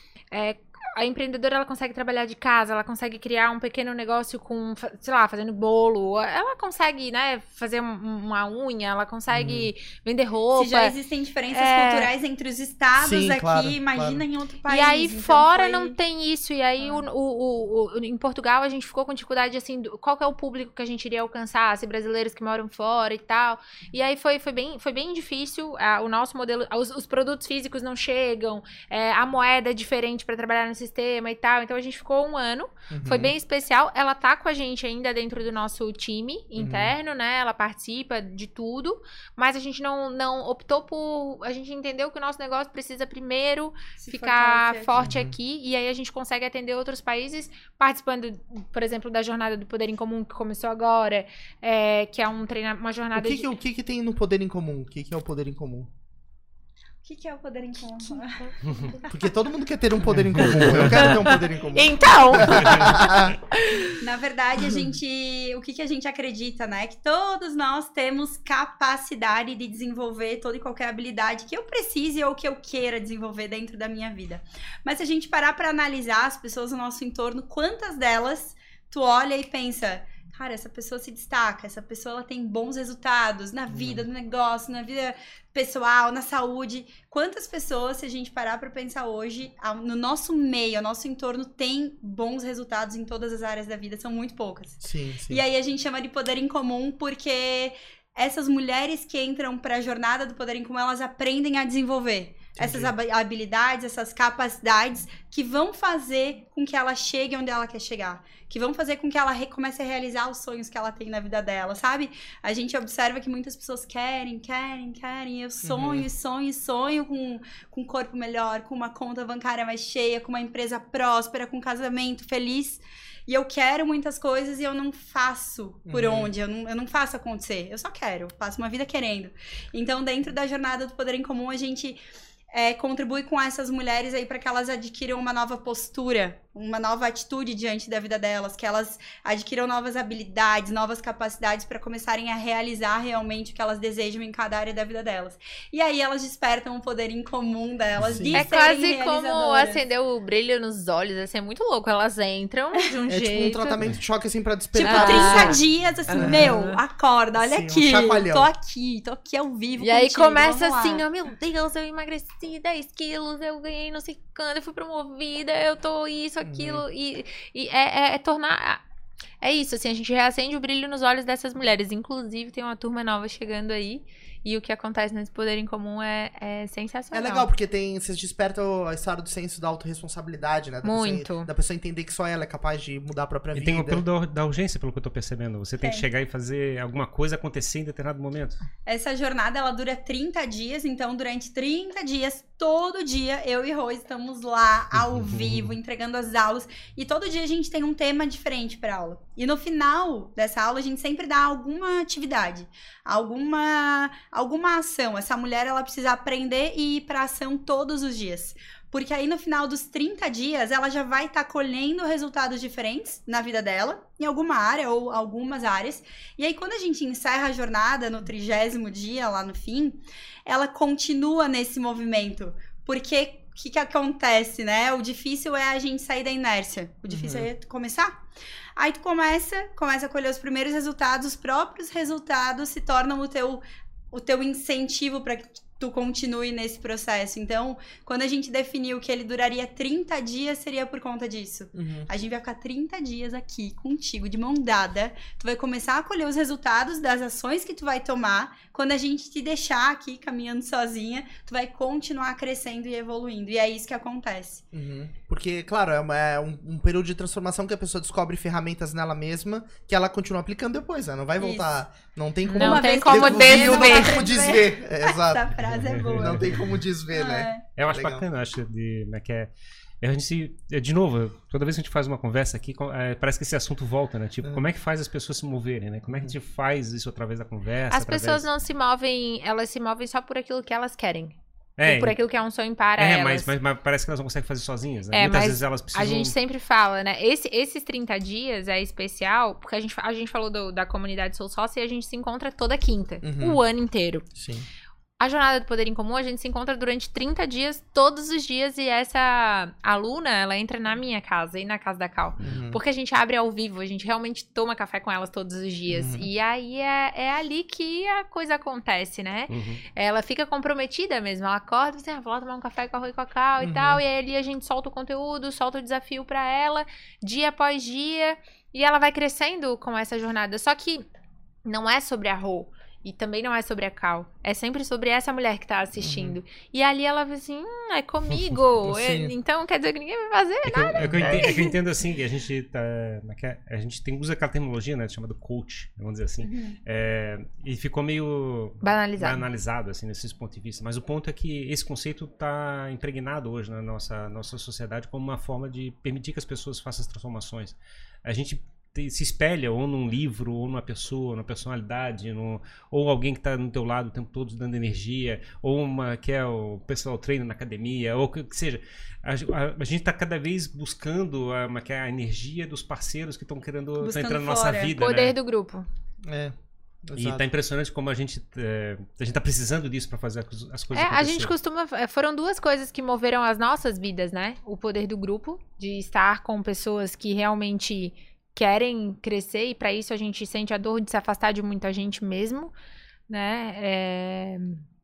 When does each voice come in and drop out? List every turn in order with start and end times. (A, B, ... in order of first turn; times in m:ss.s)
0:00.3-0:10.9 A
0:09.3-0:09.7 B
0:10.5-0:15.9 C
0:11.5-0:12.1 A
0:13.0-0:14.2 B
0:14.7-0:53.5 A
0:16.8-0:17.0 C
0:32.9-0:33.3 B
0:36.6-0:36.9 B
0:44.0-0:45.0 C
0:45.0-0:45.4 B
0:53.1-0:55.9 B
0:57.0-0:59.0 C
0:58.7-0:59.0 A
0:59.1-1:03.4 B
1:00.4-1:04.0 A
1:02.5-1:02.9 D
1:04.0-2:12.0 C
1:23.7-1:24.0 B
1:34.8-1:35.4 B
1:42.6-1:42.9 B
1:55.6-1:56.1 B
2:05.9-2:06.3 B
2:12.5-2:29.8 C
2:28.0-2:28.4 B
2:28.3-2:33.8 A
2:33.1-2:36.6 B
2:34.7-2:41.0 C
2:34.8-2:36.8 A
2:37.4-2:38.5 B
2:39.8-2:48.8 A
2:46.4-2:46.8 B
2:49.4-2:57.5 A
2:57.1-3:04.0 B
3:00.8-3:01.5 A
3:03.5-3:08.6 D
3:08.8-3:48.2 C
3:15.2-3:15.6 D
3:47.1-3:47.5 B
3:48.8-4:14.6 C
4:01.7-4:02.1 B
4:14.7-4:28.2 B
4:21.4-4:21.8 C
4:22.4-4:24.2 A
4:22.5-4:26.5 C
4:25.7-4:26.6 D
4:27.1-4:27.6 C
4:27.8-4:38.5 D
4:37.9-4:43.5 A
4:41.8-4:42.2 D
4:43.0-4:46.3 D
4:45.1-4:54.3 A
4:53.2-4:53.6 B
4:54.3-4:54.6 B
4:55.2-5:21.0 A
5:02.4-5:02.8 B
5:05.9-5:06.3 B
5:09.5-5:09.8 D
5:13.6-5:14.0 B
5:21.6-5:31.7 A
5:26.0-5:26.4 B
5:28.8-5:29.3 B
5:30.7-6:05.4 D
5:30.9-5:31.4 B
5:36.4-5:36.8 C
5:38.8-5:39.4 A
6:04.0-6:04.9 C
6:05.0-6:05.8 A
6:06.2-6:06.5 B
6:07.1-6:07.4 B
6:07.2-6:11.5 D
6:10.9-6:22.7 A
6:23.3-6:24.8 A